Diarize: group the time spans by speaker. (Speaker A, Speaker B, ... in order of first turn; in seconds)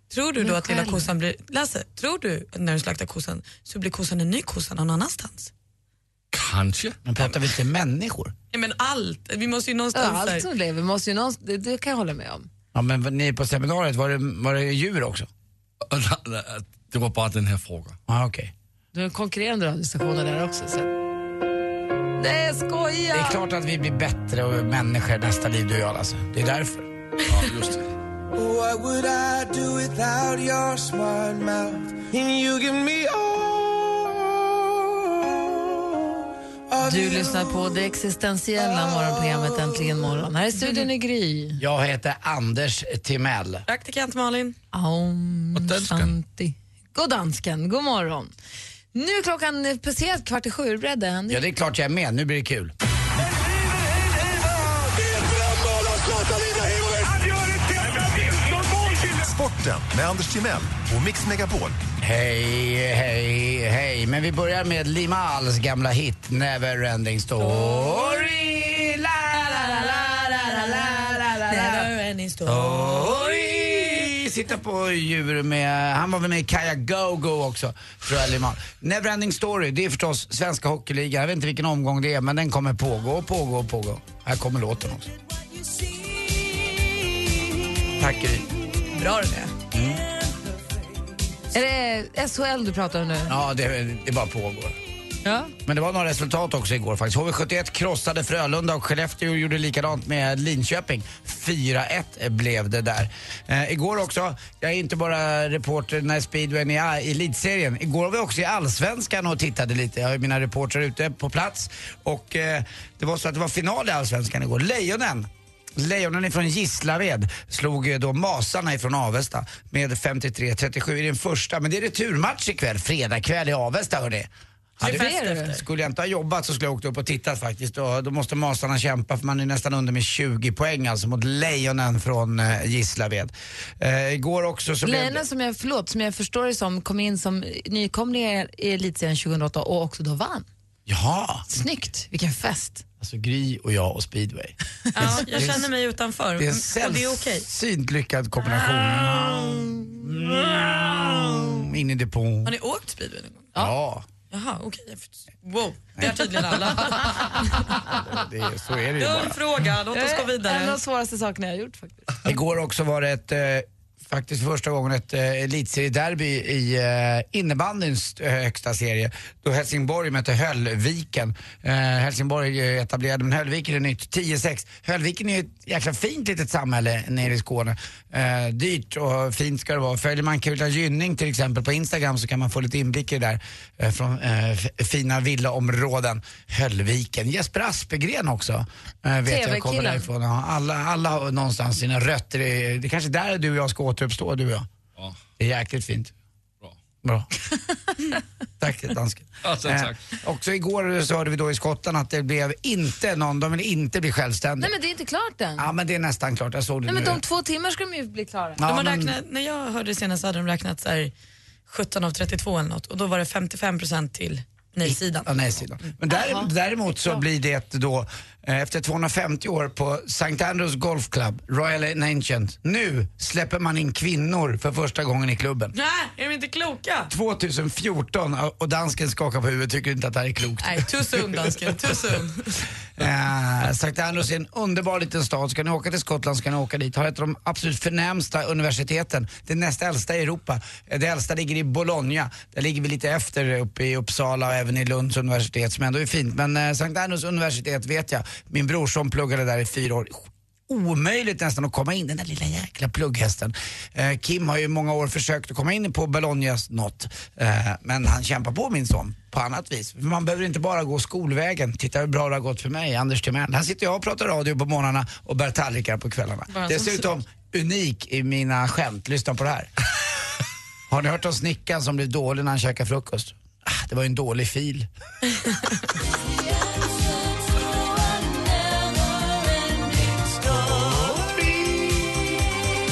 Speaker A: 0.1-5.5, 8.5-10.5, 43.7-44.5, 67.4-68.2, 69.9-73.1, 88.9-89.5, 124.8-125.6, 144.9-147.5, 152.4-153.5, 154.3-157.8, 159.0-160.8, 208.6-211.1, 211.7-215.3, 225.7-227.1, 230.6-232.7, 275.5-275.8
Speaker B: 0.4-1.1, 9.9-12.5, 18.9-20.9, 22.2-23.4, 36.8-41.6, 44.7-48.3, 48.9-51.4, 91.5-93.4, 95.2-95.5, 124.8-125.5, 134.8-140.5, 141.5-142.8, 159.9-162.2, 189.2-190.1, 204.6-205.7, 206.9-208.6, 216.1-217.2
Speaker C: 6.3-7.0, 15.9-18.0, 27.3-27.9, 45.5-46.1, 199.4-200.0
Speaker D: 7.0-8.3, 12.7-15.3, 18.1-18.5, 23.1-26.9, 41.6-43.6, 51.3-52.7, 62.0-71.9, 72.4-85.1, 87.9-88.5, 89.7-90.0, 93.3-94.8, 95.7-135.2, 140.9-141.5, 143.0-145.7, 146.4-152.5, 153.5-154.1, 156.0-159.4, 162.2-194.7, 195.4-196.1, 198.6-204.7, 205.6-207.2, 208.6-209.2, 214.8-225.7, 227.1-231.6, 233.0-269.7, 270.9-274.9, 280.4-282.5
Speaker E: 28.3-34.2, 36.7-37.9, 38.5-40.3, 55.2-57.3, 58.0-58.4
Speaker F: 59.1-61.8